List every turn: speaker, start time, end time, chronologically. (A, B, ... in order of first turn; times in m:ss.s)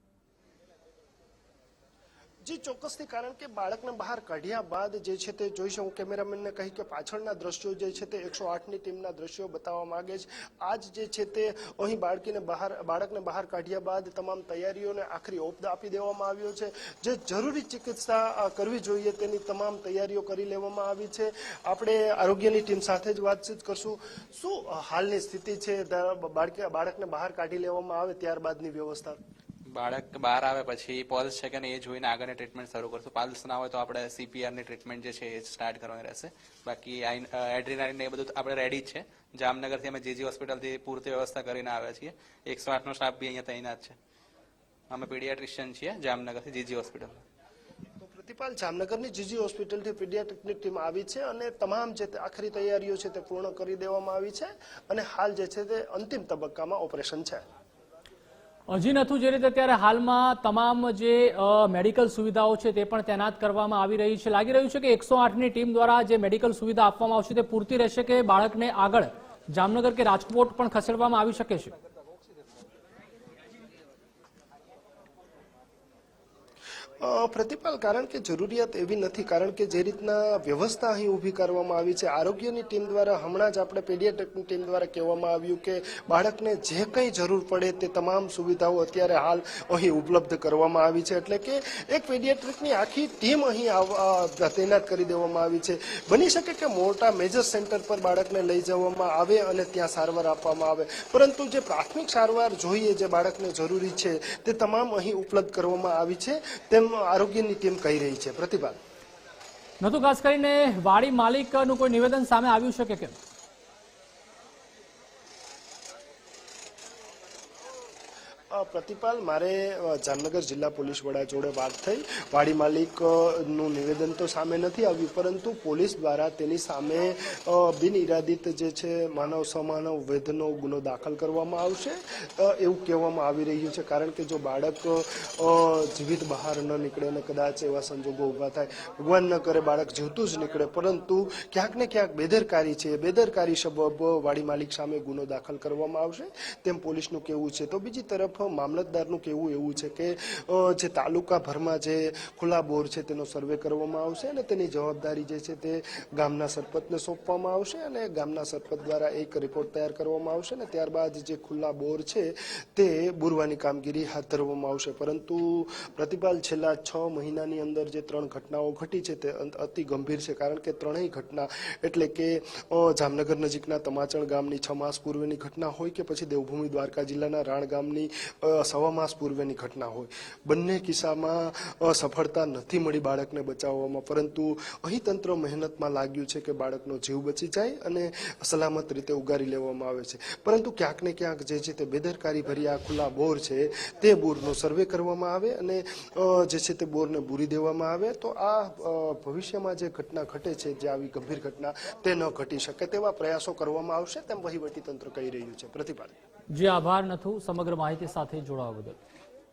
0:02.4-0:29.2 A
0:29.7-0:44.0 B
0:44.9-0:47.2 B
0:48.0-0:57.4 A
0:58.7-1:11.7 C
1:17.0-1:48.8 A
1:49.8-1:53.2 C
1:58.5-3:26.1 A
3:26.5-3:29.0 C